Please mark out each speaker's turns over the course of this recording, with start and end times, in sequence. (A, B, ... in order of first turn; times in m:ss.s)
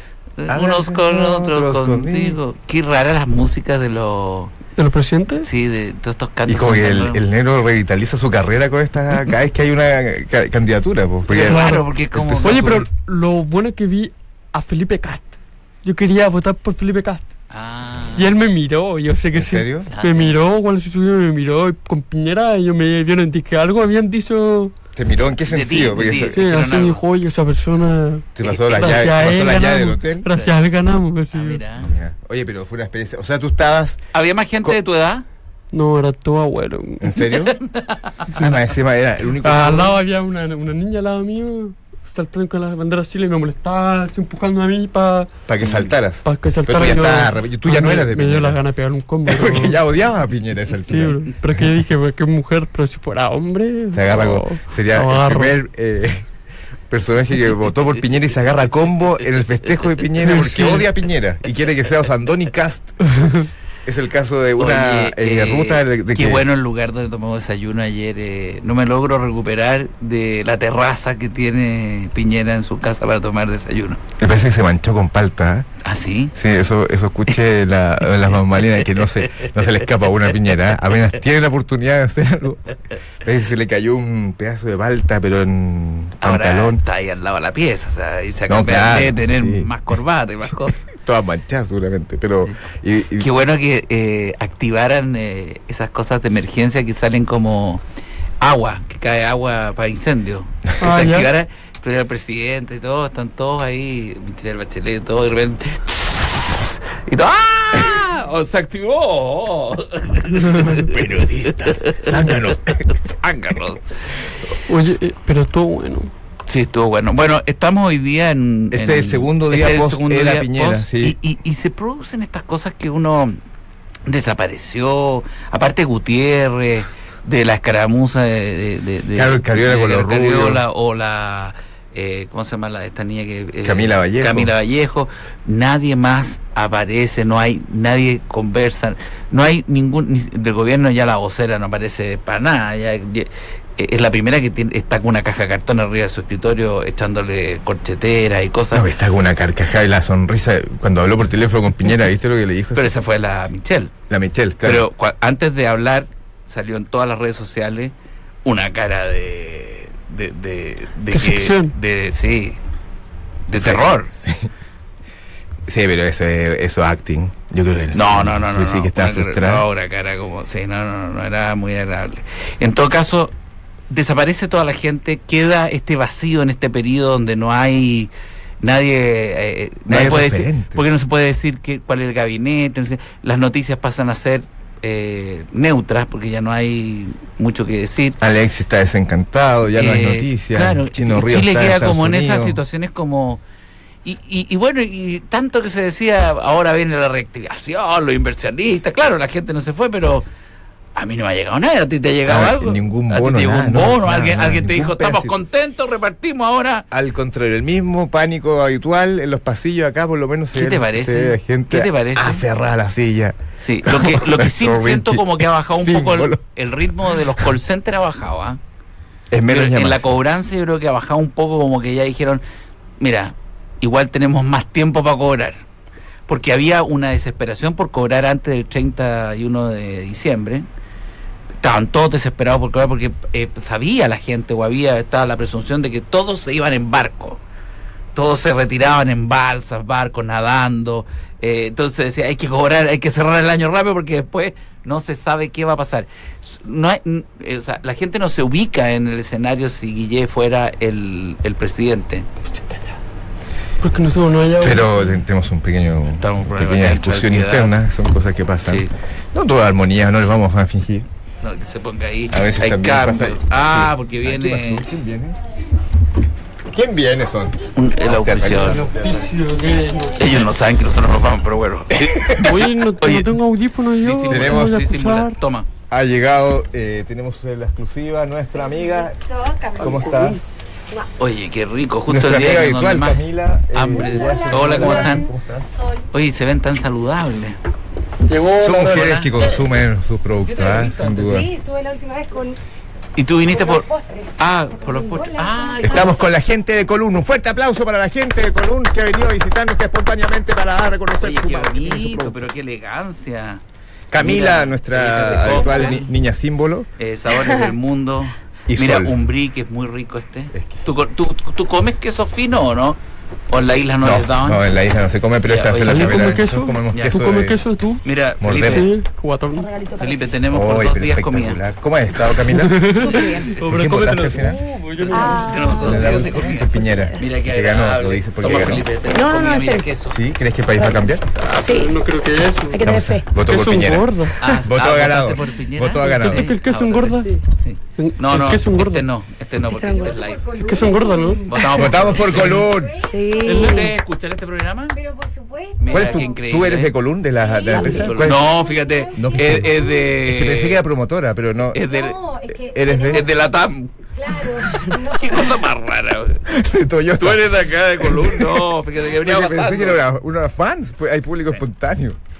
0:00.4-0:04.5 A
0:00.5-0:02.4 B
0:04.8-0:05.5 C
0:05.4-0:07.2 A
0:06.4-0:12.9 B
0:11.3-0:12.8 A
0:11.5-0:11.9 C
0:12.4-0:17.3 C
0:17.5-0:18.3 A
0:18.1-0:24.7 C
0:19.3-0:19.9 B
0:19.9-0:20.3 A
0:25.0-0:26.4 B
0:25.5-0:27.0 A
0:26.3-0:31.6 C
0:28.3-0:30.3 B
0:31.3-0:31.9 A
0:31.8-0:34.0 B
0:34.1-0:35.2 A
0:35.7-0:37.2 C
0:37.0-0:37.6 B
0:37.5-0:38.4 A
0:38.3-0:40.0 B
0:39.4-0:45.3 C
0:45.5-0:48.6 B
0:45.6-0:45.9 A
0:46.2-0:49.8 C
0:49.2-0:51.6 B
0:50.8-0:55.5 C
0:53.9-0:56.2 B
0:56.9-1:03.2 B
1:00.2-1:00.9 C
1:03.8-1:06.4 B
1:04.6-1:14.0 A
1:14.2-1:15.7 B
1:15.8-1:16.3 A
1:16.3-1:26.8 B
1:26.2-1:30.8 A
1:28.5-1:29.7 B
1:30.8-1:33.3 B
1:33.2-1:37.8 A
1:38.4-1:52.3 A
1:40.8-1:41.3 C
1:50.5-1:52.9 B
1:52.8-1:53.9 A
1:54.7-1:56.1 C
1:56.5-2:03.4 A
1:58.7-2:01.2 B
2:04.0-2:28.9 A
2:09.1-2:10.6 B
2:13.6-2:14.5 B
2:28.7-2:32.9 B
2:32.7-2:33.9 A
2:34.1-2:34.8 B
2:34.6-2:42.6 A
2:41.1-2:41.7 C
2:43.5-2:44.1 A
2:43.5-2:44.5 B
2:45.7-2:49.6 B
2:47.9-2:53.3 A
2:53.9-2:58.1 A
2:58.6-3:08.2 A
2:59.9-3:00.9 B
3:08.2-3:12.6 B
3:09.8-3:13.4 A
3:14.0-3:20.2 A
3:20.9-3:26.8 A
3:22.3-3:25.3 B
3:26.9-3:36.4 B
3:30.5-3:32.4 A
3:33.6-3:38.6 A
3:37.1-3:37.4 B
3:39.3-3:40.2 B
3:39.5-3:42.4 A
3:43.0-3:45.6 A
3:46.3-3:50.6 A
3:51.6-3:57.4 A
3:58.1-4:12.3 A
4:12.4-4:12.9 C
4:13.8-4:15.1 C
4:14.6-4:21.1 B
4:16.1-4:17.8 A
4:18.6-4:18.9 A
4:21.4-4:24.8 A
4:22.3-4:25.4 B
4:26.7-4:29.3 B
4:27.7-4:28.9 A
4:29.0-4:30.2 C
4:30.2-4:33.4 A
4:31.9-4:32.6 B
4:32.4-4:35.3 C
4:34.0-4:35.7 A
4:34.3-4:34.7 B
4:35.9-4:39.2 B
4:38.7-4:40.4 D
4:39.8-4:40.4 B
4:41.2-4:45.3 A
4:42.1-4:45.7 B
4:43.9-4:45.1 E
4:44.3-4:44.9 D
4:46.1-4:47.6 A
4:48.3-4:49.1 C
4:48.6-4:51.5 B
4:48.7-4:49.6 A
4:50.4-4:51.5 A
4:51.2-4:52.6 D
4:53.2-4:53.9 A
4:53.5-4:55.2 D
4:54.4-4:56.2 A
4:55.1-4:56.2 E
4:55.8-5:02.4 B
5:01.2-5:03.6 A
5:04.1-5:06.9 B
5:04.1-5:06.1 A
5:05.5-5:05.9 D
5:07.0-5:14.6 A
5:07.4-5:07.7 D
5:08.7-5:09.2 B
5:10.5-5:10.9 B
5:14.0-5:17.6 B
5:15.4-5:17.1 A
5:15.8-5:18.0 C
5:18.0-5:18.9 A
5:18.4-5:18.9 B
5:18.7-5:19.7 C
5:19.5-5:20.2 D
5:20.0-5:21.6 A
5:20.5-5:22.9 B
5:22.4-5:26.3 C
5:22.9-5:23.6 D
5:23.6-5:24.6 B
5:25.0-5:30.2 A
5:25.1-5:26.2 D
5:25.7-5:28.9 B
5:26.8-5:27.2 D
5:29.1-5:29.9 D
5:30.1-5:31.2 B
5:31.4-5:32.8 C
5:31.6-5:31.9 D
5:32.7-5:33.3 D
5:32.8-5:36.5 B
5:33.3-5:34.4 C
5:34.4-5:40.4 A
5:36.0-5:37.4 C
5:38.0-5:39.0 C
5:39.7-5:40.2 D
5:39.8-5:43.9 E
5:40.6-5:41.9 C
5:41.5-5:42.7 A
5:41.7-5:43.0 B
5:43.1-5:43.9 D
5:43.4-5:43.9 C
5:43.5-5:45.0 A
5:44.9-5:46.4 E
5:45.8-5:46.9 A
5:45.9-5:48.4 B
5:47.4-5:50.0 E
5:47.7-5:48.2 D
5:47.8-5:50.8 A
5:49.2-5:51.8 B
5:51.7-5:52.2 A
5:51.8-5:53.3 E
5:52.7-5:53.3 B
5:53.1-5:56.4 A
5:54.1-5:55.6 E
5:56.4-6:02.2 B
5:57.2-6:00.0 A